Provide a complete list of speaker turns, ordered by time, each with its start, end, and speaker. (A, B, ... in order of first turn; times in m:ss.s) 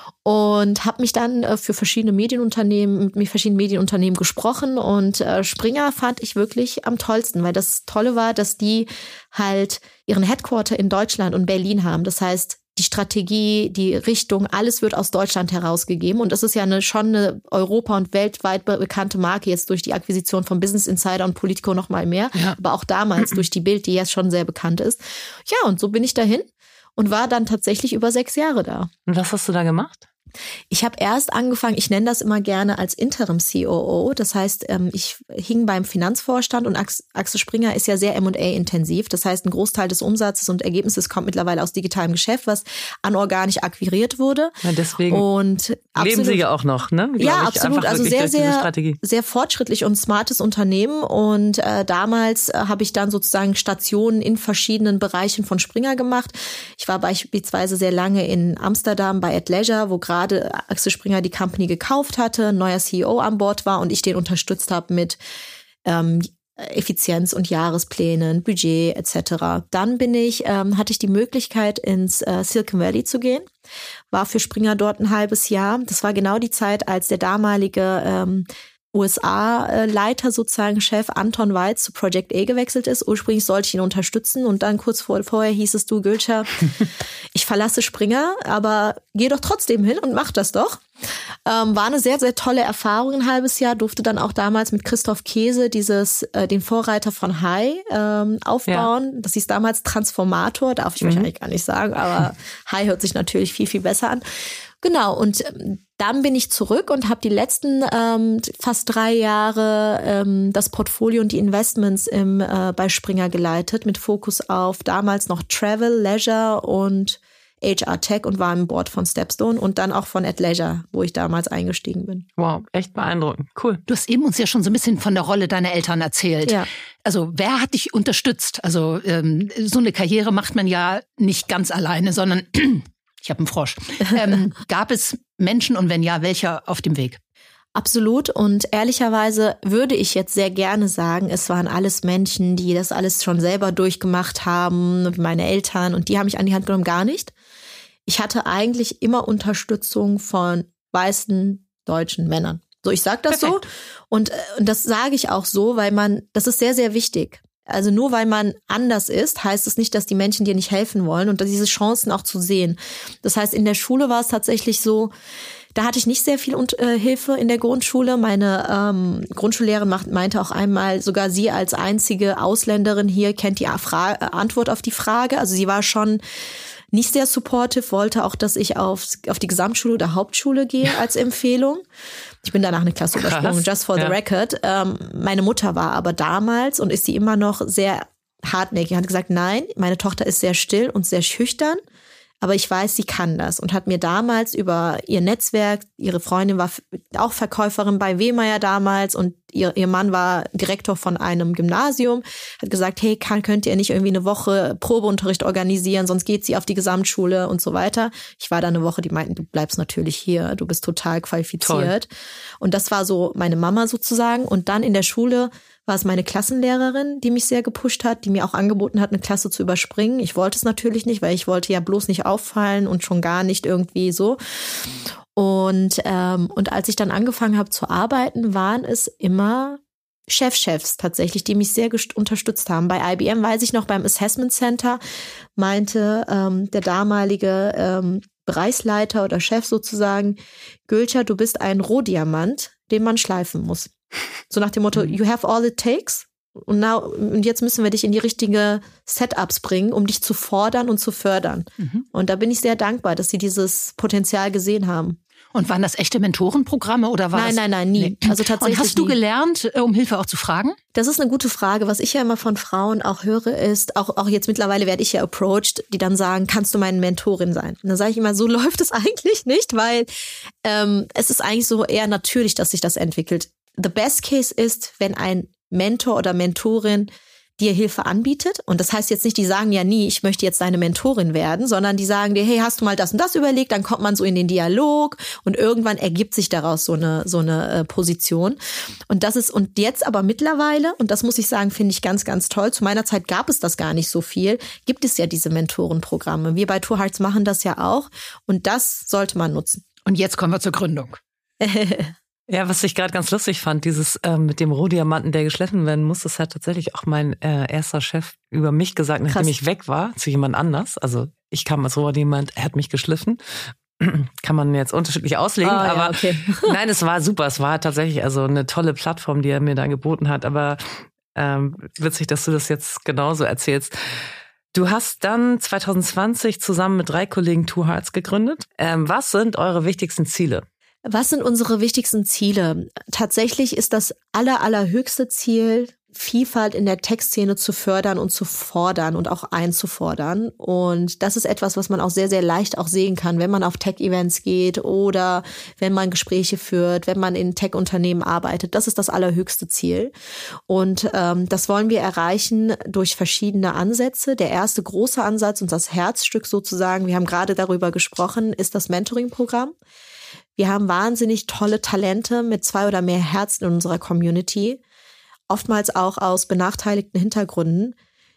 0:00.2-0:26.4 A
0:27.0-0:28.9 A
0:29.1-0:30.1 B
0:30.7-0:44.5 A
0:44.6-0:45.2 B
0:45.1-0:46.4 A
0:46.0-0:49.0 B
0:47.2-1:05.2 A
1:05.8-1:13.4 A
1:14.1-1:26.8 A
1:27.3-1:30.8 A
1:31.4-1:44.2 A
1:41.0-1:41.3 B
1:44.8-2:02.2 A
2:02.4-2:03.8 B
2:03.9-2:17.2 C
2:17.8-2:27.3 A
2:28.0-2:45.1 A
2:45.7-2:56.2 A
2:56.9-3:01.8 A
3:02.4-3:11.8 A
3:03.2-3:04.2 B
3:12.4-3:32.1 A
3:31.6-3:31.9 B
3:32.6-3:44.4 A
3:45.4-3:55.0 A
3:55.6-4:03.9 A
4:04.5-4:15.2 A
4:15.5-4:20.8 C
4:17.3-4:19.2 A
4:20.9-4:30.1 A
4:30.6-4:48.6 A
4:49.1-4:59.8 A
5:00.0-5:01.2 C
5:01.6-5:02.1 A
5:02.5-5:13.4 B
5:14.0-5:24.2 B
5:15.6-5:16.7 A
5:24.7-5:30.6 B
5:31.1-5:50.1 A
5:50.7-5:59.7 A
6:00.6-6:04.8 A
6:05.5-6:07.9 A